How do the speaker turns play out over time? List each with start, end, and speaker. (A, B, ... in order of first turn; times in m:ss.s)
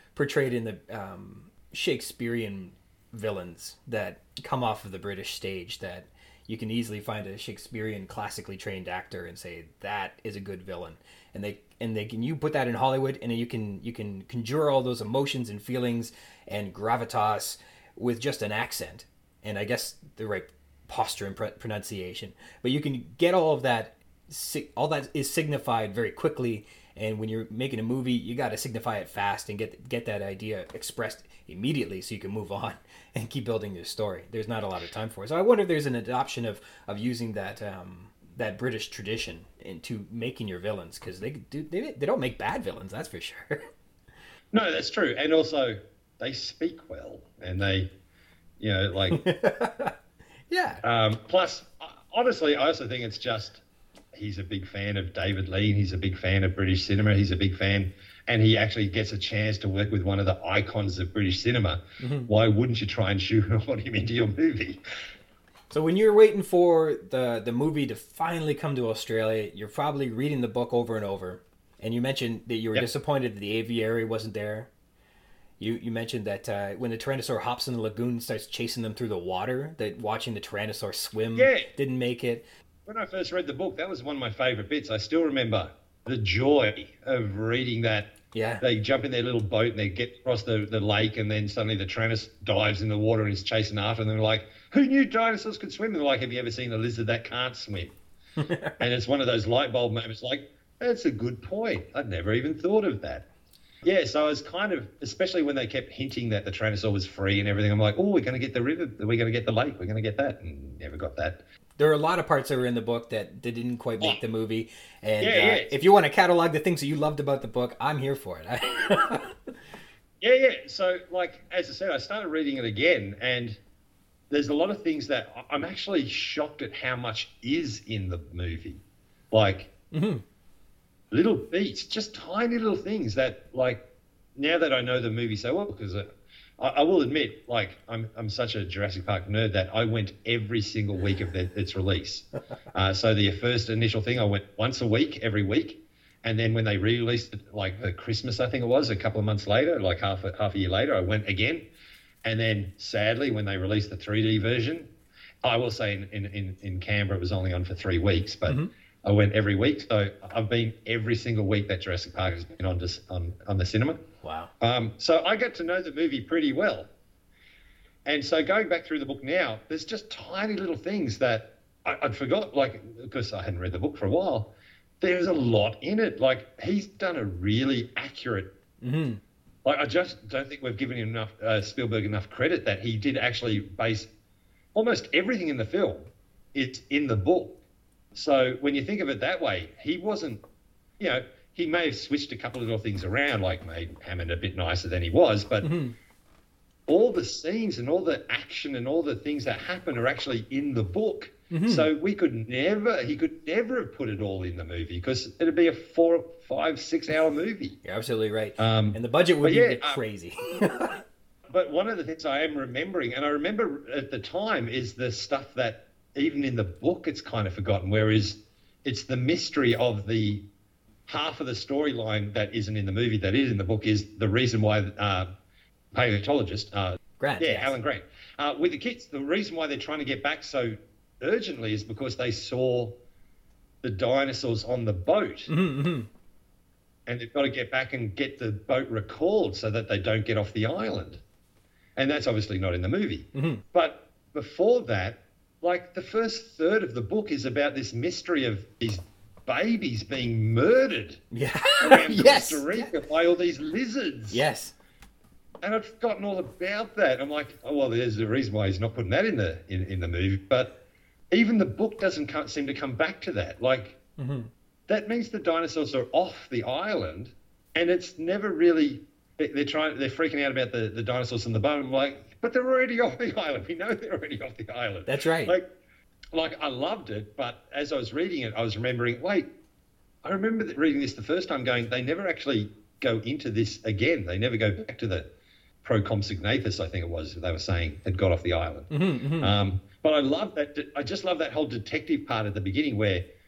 0:00.1-0:43.7 A
0:44.5-0:47.9 B
0:48.6-0:49.2 B
0:49.1-0:49.9 A
0:50.5-0:50.8 A
0:50.8-0:53.6 B
0:54.1-1:04.8 B
1:02.0-1:02.3 A
1:05.7-1:14.7 A
1:15.6-1:22.4 A
1:21.4-1:21.7 B
1:22.8-1:37.9 B
1:28.3-1:28.6 A
1:38.4-1:38.8 A
1:38.8-1:43.2 B
1:43.8-1:51.4 B
1:51.8-1:59.4 A
1:55.2-1:55.8 B
2:00.2-2:03.6 B
2:04.3-2:08.8 B
2:09.3-2:09.7 B
2:09.9-2:10.2 A
2:11.1-2:13.8 B
2:14.4-2:16.1 B
2:16.6-2:31.6 B
2:32.2-2:34.9 B
2:35.4-2:44.0 B
2:44.2-2:44.5 A
2:44.6-2:46.9 B
2:48.0-2:58.5 B
2:58.8-2:59.2 A
2:59.6-3:04.1 B
3:04.7-3:07.6 B
3:08.1-3:10.4 B
3:11.0-3:15.7 B
3:15.6-3:15.9 A
3:16.9-3:27.8 B
3:21.5-3:21.9 A
3:27.8-3:31.0 A
3:28.6-3:30.0 B
3:31.5-3:40.4 B
3:41.1-3:45.3 B
3:45.9-3:53.0 B
3:47.2-3:47.8 A
3:53.8-3:55.5 B
3:55.5-3:56.1 A
3:57.1-4:01.2 B
4:02.0-4:11.2 B
4:03.3-4:03.6 A
4:11.3-4:12.9 A
4:11.8-4:14.4 B
4:14.3-4:14.7 A
4:15.6-4:20.7 B
4:21.3-4:24.0 B
4:24.2-4:24.5 A
4:24.9-4:35.7 B
4:35.0-4:35.5 A
4:36.3-4:39.5 B
4:40.2-4:45.3 B
4:45.8-4:53.2 B
4:48.9-4:49.5 A